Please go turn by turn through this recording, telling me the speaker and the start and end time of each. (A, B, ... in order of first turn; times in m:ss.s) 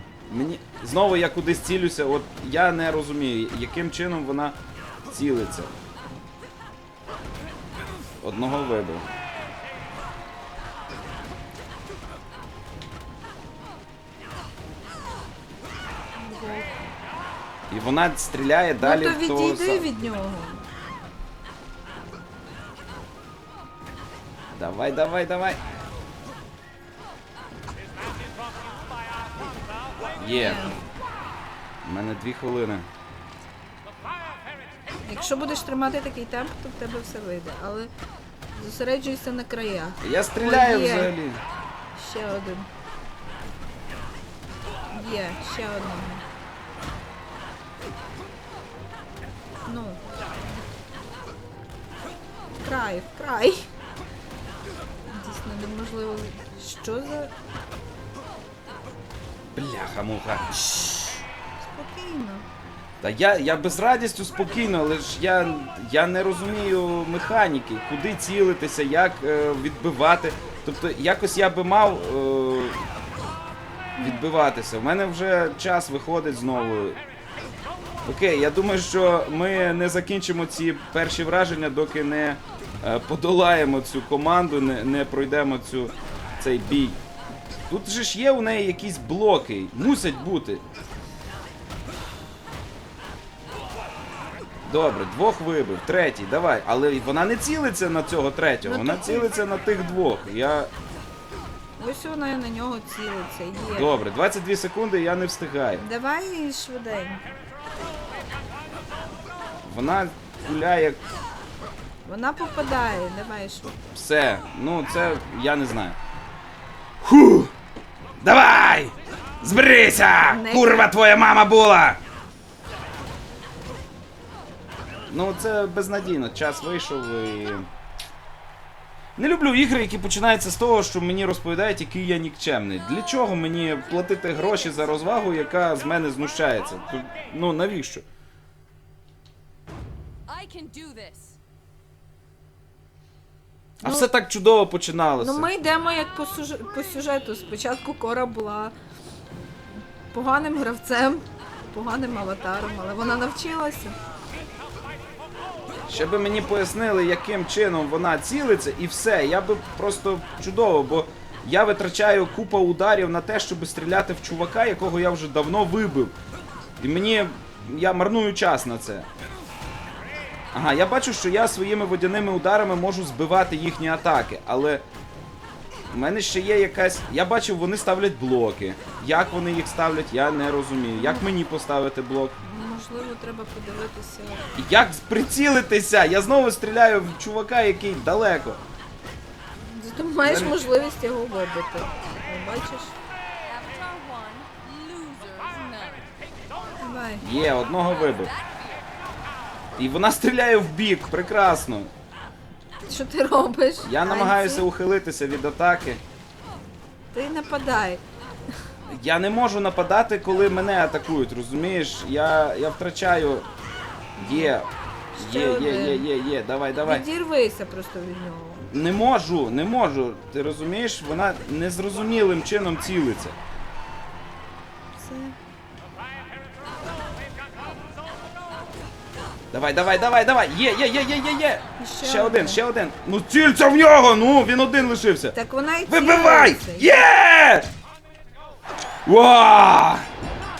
0:00.3-0:04.6 A
0:05.1-0:05.7 A
0:08.2-0:09.1 A
0:16.2-0:16.7 B
0:17.7-0:19.9 A
0:18.8-0:20.6 B
0:24.5-0:25.6 A
0:30.2-0:30.7 A
0:30.3-0:30.8 B
0:31.8-0:32.9 A
0:35.1-0:37.9 B
0:38.5-0:41.1 B
0:40.0-0:41.4 A
0:42.0-0:42.7 B
0:44.9-0:46.2 B
0:49.6-0:50.0 B
0:52.6-0:53.7 B
0:55.1-0:57.3 B
0:59.6-1:00.5 A
1:00.5-1:02.4 B
1:03.0-1:12.9 A
1:14.0-1:14.2 B
1:14.0-1:17.0 A
1:18.0-1:27.0 A
1:27.7-1:30.6 A
1:34.7-1:40.7 A
1:38.6-1:39.3 B
1:41.8-1:43.9 B
1:43.8-1:45.8 A
1:45.8-1:47.2 B
1:49.6-1:51.0 A
1:52.0-1:53.7 B
1:53.9-1:56.0 A
1:57.0-1:57.5 A
1:58.2-2:02.0 A
2:00.2-2:00.9 B
2:05.1-2:07.7 A
2:09.2-2:18.0 A
2:20.3-2:21.4 C
2:23.8-2:25.5 A
2:25.2-2:28.7 B
2:30.1-2:34.0 B
2:35.9-2:46.2 A
2:46.8-2:49.1 A
2:50.5-2:54.8 A
2:55.9-3:02.4 A
3:01.0-3:01.3 B
3:02.4-3:04.5 B
3:04.6-3:08.6 A
3:09.6-3:13.0 B
3:10.2-3:10.7 A
3:13.4-3:16.1 C
3:16.8-3:17.2 B
3:17.2-3:18.3 A
3:17.8-3:18.8 C
3:19.8-3:21.9 A
3:22.8-3:24.7 B
3:23.8-3:26.0 A
3:27.1-3:28.0 B
3:28.9-3:33.5 A
3:34.2-3:37.0 A
3:34.2-3:34.6 B
3:35.2-3:36.1 B
3:36.8-3:38.6 B
3:38.7-3:43.4 A
3:44.9-3:45.4 B
3:49.5-3:55.4 A
3:51.8-3:52.6 B
3:55.4-3:57.1 B
3:55.9-3:57.7 A
3:59.0-4:00.1 A